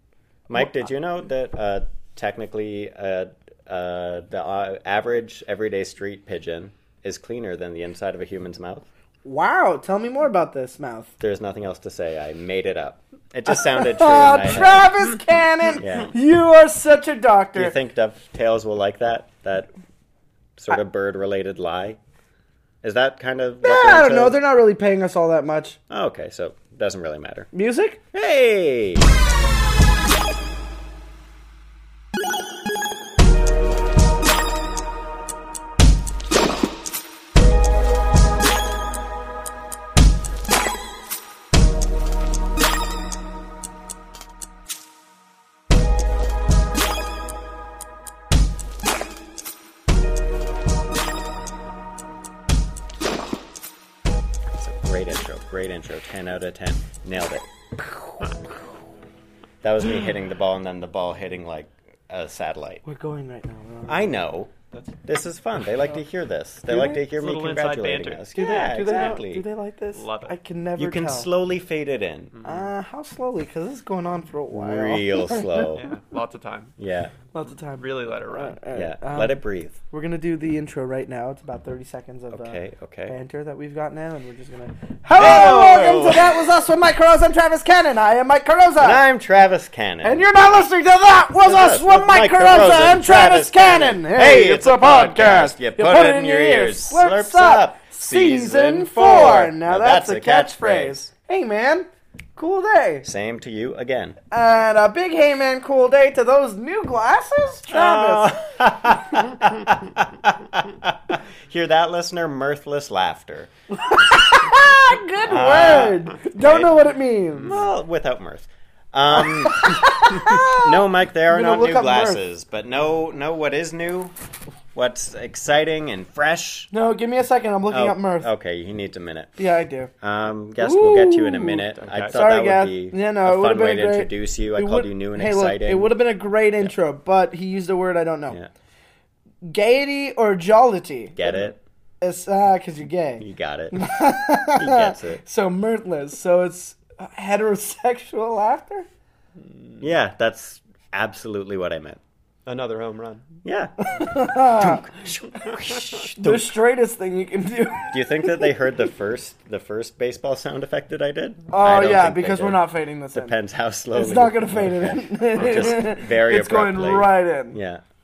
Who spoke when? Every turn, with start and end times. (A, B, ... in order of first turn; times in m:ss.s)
0:00.5-0:08.9 A
0:09.2-0:11.1 B
0:11.2-0:14.9 A
0:13.5-0:17.8 B
0:15.8-0:16.1 A
0:17.5-0:19.7 A
0:20.6-0:22.0 A
0:22.8-0:24.4 A
0:23.6-0:25.8 B
0:25.9-0:27.5 A
0:27.5-0:28.0 B
0:28.1-0:29.1 A
0:54.6-0:57.5 A
0:59.6-1:02.8 A
1:02.8-1:04.2 B
1:03.9-1:04.5 A
1:05.0-1:09.4 A
1:06.7-1:09.2 C
1:08.4-1:11.3 B
1:09.9-1:10.4 C
1:10.8-1:12.3 A
1:12.3-1:12.7 C
1:12.4-1:15.6 B
1:14.5-1:15.9 A
1:15.8-1:16.7 C
1:16.8-1:17.1 A
1:17.3-1:29.0 B
1:17.8-1:18.6 C
1:18.7-1:19.8 A
1:22.3-1:23.2 A
1:25.2-1:26.5 A
1:25.2-1:25.7 C
1:28.8-1:30.2 A
1:30.0-1:43.1 B
1:31.4-1:41.1 A
1:43.0-1:44.2 A
1:44.3-1:48.4 B
1:47.7-1:53.5 A
1:53.7-1:57.6 B
1:55.2-1:56.8 A
1:57.4-2:04.1 A
1:59.2-2:02.2 B
2:04.7-2:06.7 A
2:06.7-2:08.3 B
2:07.7-2:09.4 A
2:09.4-2:09.9 B
2:10.0-2:15.9 A
2:10.6-2:18.4 B
2:11.8-2:12.2 C
2:19.4-2:21.2 B
2:21.2-2:21.6 A
2:22.0-2:28.9 B
2:23.2-2:23.9 A
2:24.6-2:25.2 A
2:29.4-2:29.8 C
2:29.8-2:32.0 A
2:32.5-2:33.3 C
2:33.4-2:36.5 A
2:33.8-2:34.9 B
2:36.1-2:38.5 B
2:37.9-2:47.8 A
2:41.5-2:43.4 B
2:43.9-2:47.6 B